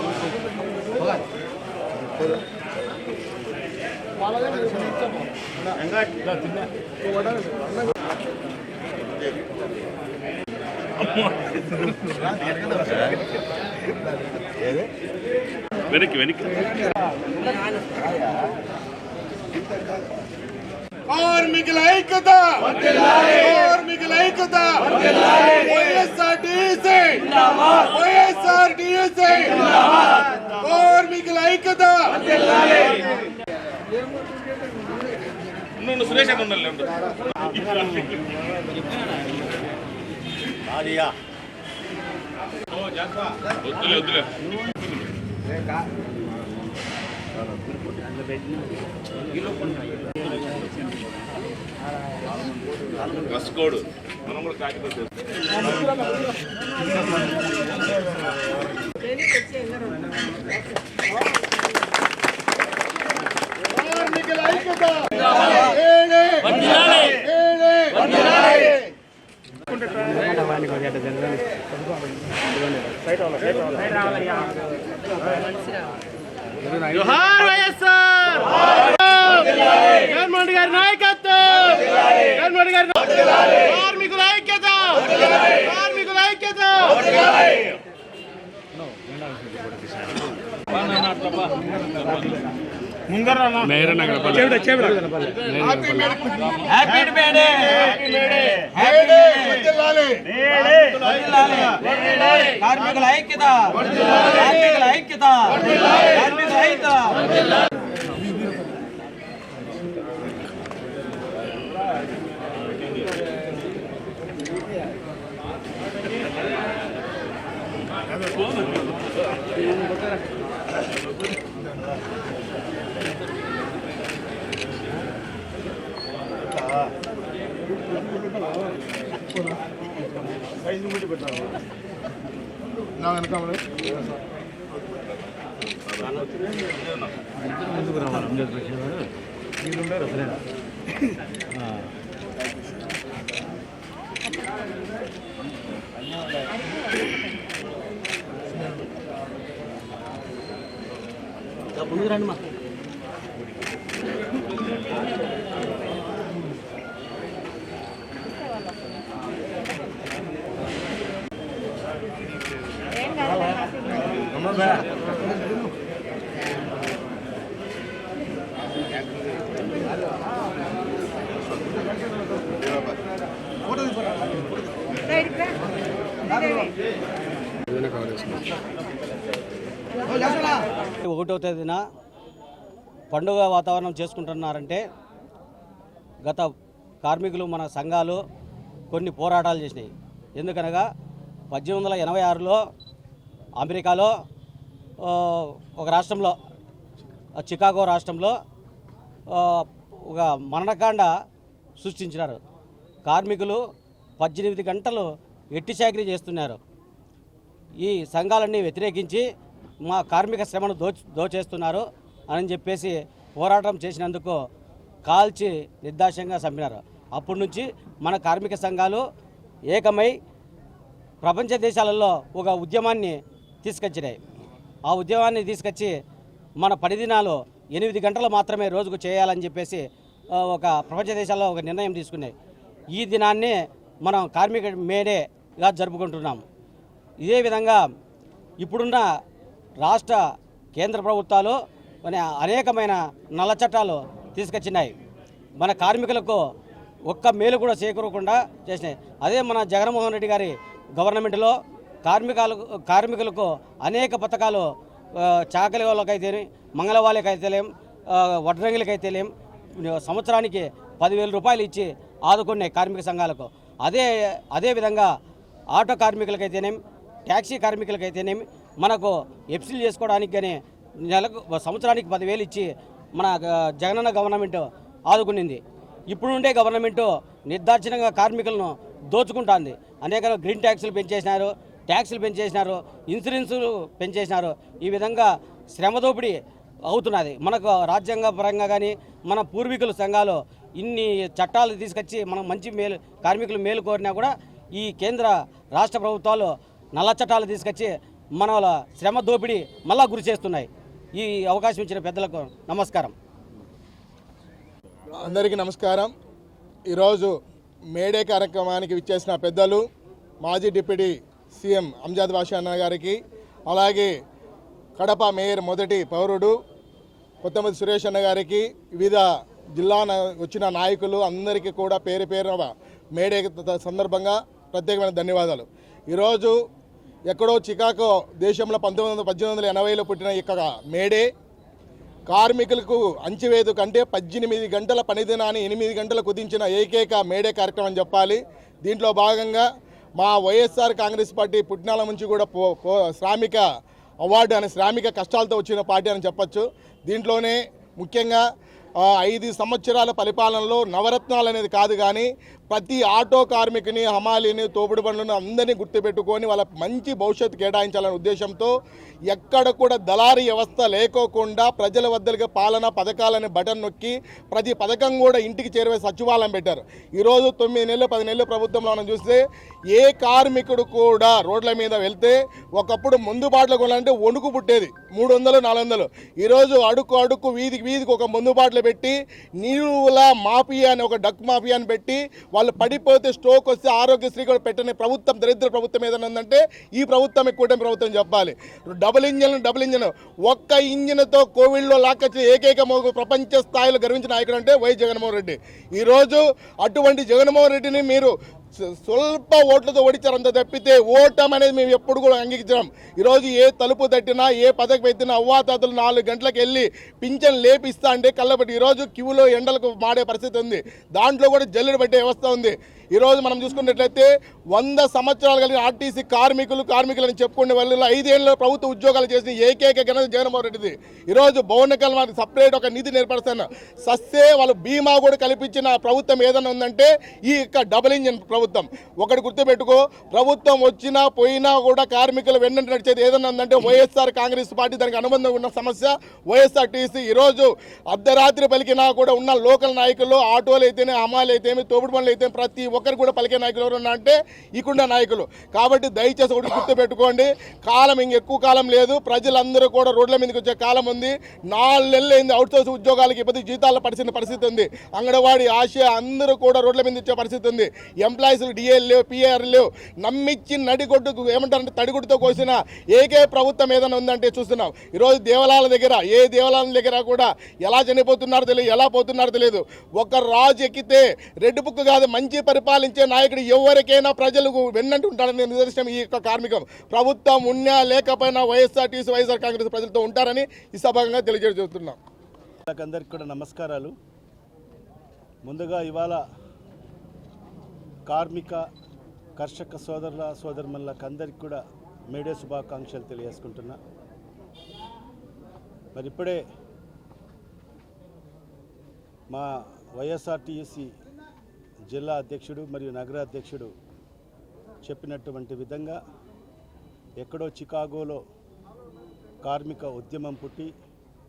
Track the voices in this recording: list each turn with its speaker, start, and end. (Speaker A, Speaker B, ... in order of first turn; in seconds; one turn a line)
Speaker A: 4.4-5.0
Speaker B: 11.0-13.2
Speaker B: 15.9-16.9
Speaker A: 21.1-29.7
Speaker A: 30.6-32.2
Speaker B: 35.8-36.9
Speaker B: 43.7-44.2
Speaker B: 53.3-53.8
Speaker A: 63.7-68.8
Speaker C: 77.0-77.6
Speaker D: 80.1-81.0
Speaker C: 80.4-81.0
Speaker D: 82.4-82.8
Speaker D: 83.8-84.1
Speaker C: 84.2-84.5
Speaker C: 85.8-86.3
Speaker D: 86.0-86.4
Speaker B: 93.6-94.8
Speaker A: 95.6-96.6
Speaker C: 96.7-99.7
Speaker A: 98.8-100.2
Speaker C: 100.5-107.4
Speaker A: 133.0-133.6
Speaker C: 151.8-152.4
Speaker C: 181.0-181.8
Speaker C: 183.1-184.8
Speaker C: 187.0-188.2
Speaker C: 188.9-190.9
Speaker C: 191.5-192.6
Speaker C: 193.6-194.1
Speaker C: 195.0-196.4
Speaker C: 197.4-198.3
Speaker C: 199.3-201.1
Speaker C: 201.8-202.4
Speaker C: 203.1-203.6
Speaker C: 204.2-206.6
Speaker C: 207.8-209.2
Speaker C: 209.8-214.4
Speaker C: 215.1-219.0
Speaker C: 219.7-220.1
Speaker C: 221.2-224.2
Speaker C: 224.9-225.9
Speaker C: 226.6-229.8
Speaker C: 230.4-232.3
Speaker C: 232.9-236.4
Speaker C: 237.2-237.8
Speaker C: 238.6-239.1
Speaker C: 239.8-240.2
Speaker C: 240.8-244.9
Speaker C: 245.6-246.4
Speaker C: 247.1-259.3
Speaker C: 259.8-265.1
Speaker C: 265.8-286.4
Speaker C: 286.9-303.1
Speaker A: 305.1-306.1
Speaker A: 306.9-307.3
Speaker A: 307.9-309.9
Speaker A: 310.4-314.1
Speaker A: 315.0-316.6
Speaker A: 317.4-326.6
Speaker A: 327.3-331.3
Speaker A: 332.3-339.6
Speaker A: 340.2-343.6
Speaker A: 344.2-348.4
Speaker A: 349.0-358.7
Speaker A: 359.3-369.4
Speaker A: 369.9-482.2
Speaker E: 482.9-484.1
Speaker E: 485.7-486.4
Speaker E: 488.3-488.9
Speaker E: 489.6-494.0
Speaker E: 496.1-496.6
Speaker E: 499.5-501.1
Speaker E: 502.1-503.9
Speaker E: 505.1-506.2
Speaker E: 507.4-508.4
Speaker E: 509.6-510.9